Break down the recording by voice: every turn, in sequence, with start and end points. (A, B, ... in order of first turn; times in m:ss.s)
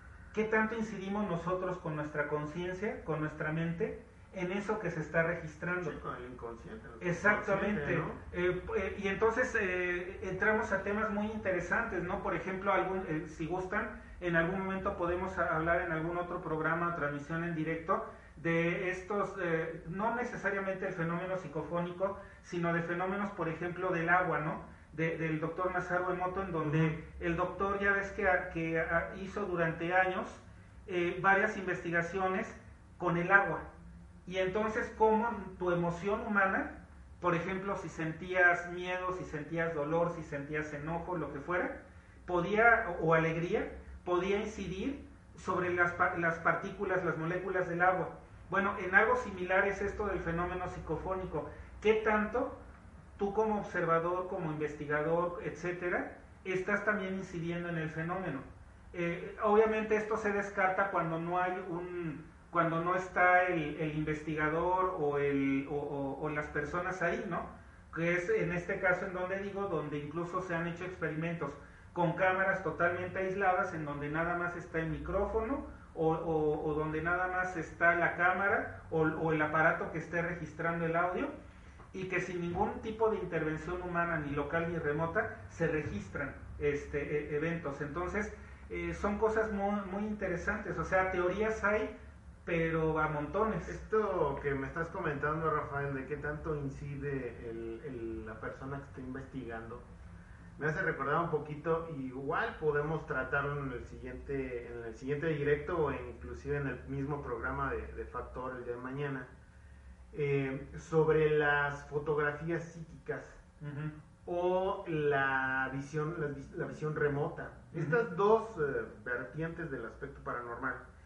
0:00.3-0:06.0 A
0:05.8-0:08.2 B
0:07.0-0:33.7 A
0:26.6-0:27.0 B
0:34.3-0:52.6 A
0:53.2-1:21.3 A
1:21.9-1:33.8 A
1:33.7-1:39.8 B
1:40.6-1:49.3 B
1:50.1-1:53.4 B
1:53.6-1:53.9 A
1:54.2-2:00.8 B
1:57.7-1:58.0 A